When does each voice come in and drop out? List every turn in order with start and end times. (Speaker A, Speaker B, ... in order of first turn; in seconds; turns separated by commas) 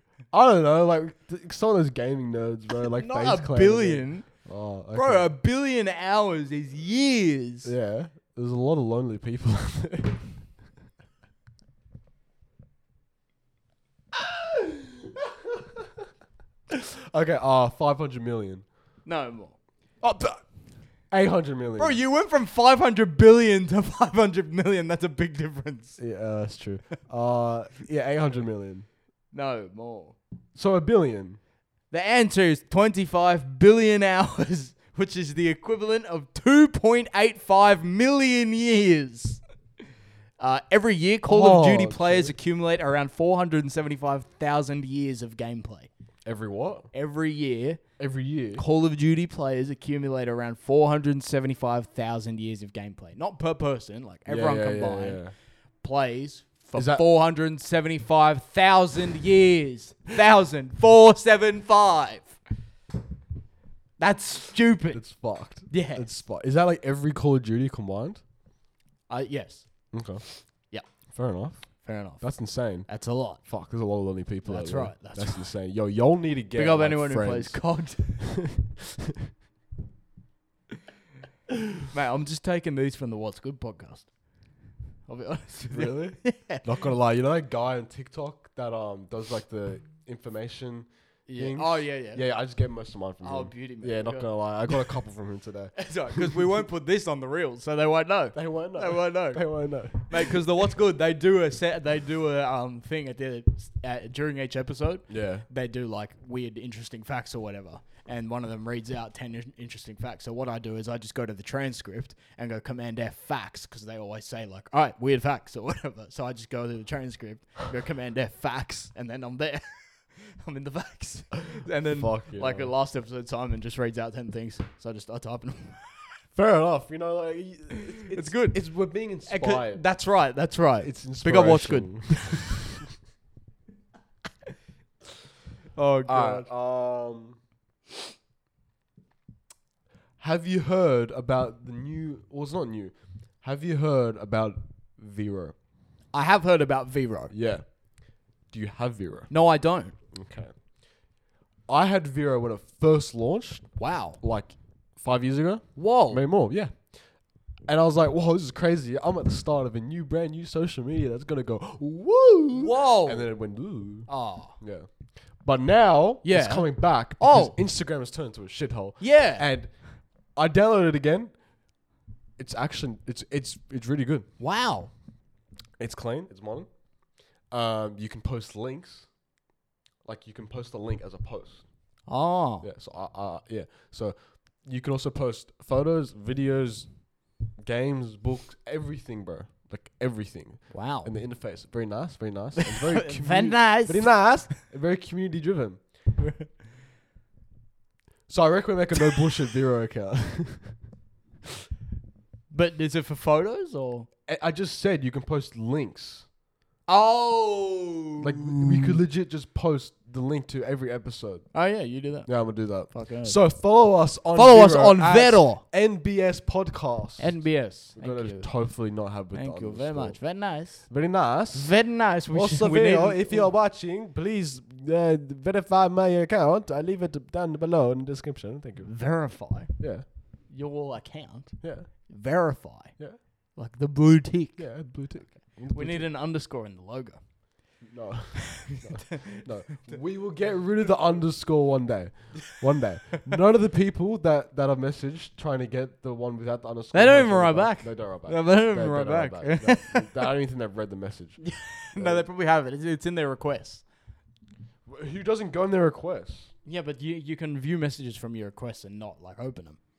Speaker A: 0.3-5.3, Speaker B: 2.9-4.3, Speaker B: 4.9-7.7, Speaker A: 7.7-10.3, Speaker A: 14.1-16.0, Speaker A: 16.7-18.6, Speaker B: 19.1-19.6, Speaker A: 20.0-20.4, Speaker A: 21.1-22.0, Speaker B: 21.8-26.0, Speaker A: 26.0-28.9, Speaker B: 29.3-30.2, Speaker A: 30.6-31.4, Speaker B: 31.9-39.4, Speaker B: 40.4-45.9, Speaker A: 41.2-42.3, Speaker A: 46.2-46.9, Speaker B: 46.9-47.8, Speaker A: 48.0-48.6, Speaker B: 48.6-55.2, Speaker A: 54.3-55.3, Speaker B: 55.8-62.4, Speaker A: 56.8-57.0, Speaker B: 64.0-65.0, Speaker A: 64.9-68.2, Speaker B: 65.7-66.1, Speaker B: 69.1-69.9, Speaker A: 69.9-70.2, Speaker A: 71.1-79.1, Speaker B: 71.8-73.4, Speaker B: 74.5-75.5, Speaker B: 76.5-78.3, Speaker B: 81.9-84.1, Speaker B: 85.1-86.8, Speaker A: 85.7-96.5, Speaker B: 91.3-92.2, Speaker B: 93.2-95.0, Speaker B: 95.8-126.2, Speaker A: 98.3-100.4, Speaker A: 105.1-105.5, Speaker A: 121.9-122.7, Speaker A: 126.3-129.8, Speaker B: 128.1-128.6, Speaker B: 129.3-132.4, Speaker A: 130.8-132.9, Speaker B: 135.8-136.5, Speaker A: 136.1-137.4, Speaker A: 140.2-145.6, Speaker B: 146.1-147.3, Speaker A: 147.3-147.8, Speaker A: 148.5-149.3, Speaker B: 149.3-150.0, Speaker A: 150.1-150.5, Speaker A: 151.7-156.9, Speaker B: 153.8-154.2, Speaker B: 155.8-156.2, Speaker A: 157.7-164.9, Speaker B: 162.5-163.3, Speaker B: 164.1-164.6, Speaker A: 165.4-171.3, Speaker B: 166.2-167.6, Speaker B: 169.0-169.5, Speaker A: 172.4-174.3, Speaker B: 174.4-174.9, Speaker A: 175.8-176.7, Speaker A: 177.5-179.1, Speaker A: 180.0-181.7, Speaker B: 182.1-182.7, Speaker A: 182.6-195.8, Speaker B: 190.7-191.1, Speaker B: 192.6-194.3, Speaker B: 196.2-196.5, Speaker A: 198.3-200.8, Speaker B: 202.5-204.1, Speaker A: 204.3-206.3, Speaker B: 206.9-209.0, Speaker A: 208.2-211.5, Speaker B: 211.5-213.4, Speaker A: 212.3-220.3, Speaker B: 214.3-215.6, Speaker B: 217.2-218.5, Speaker B: 219.3-221.0, Speaker A: 220.9-221.8, Speaker B: 221.5-223.5, Speaker A: 222.3-228.9, Speaker B: 228.8-229.8, Speaker A: 229.8-230.1, Speaker B: 230.5-233.0, Speaker A: 231.6-231.9, Speaker B: 233.5-237.2, Speaker A: 234.6-236.1, Speaker A: 237.8-252.3, Speaker B: 238.6-240.0, Speaker B: 246.9-250.2, Speaker B: 251.4-253.8, Speaker A: 254.9-256.5, Speaker B: 256.6-259.8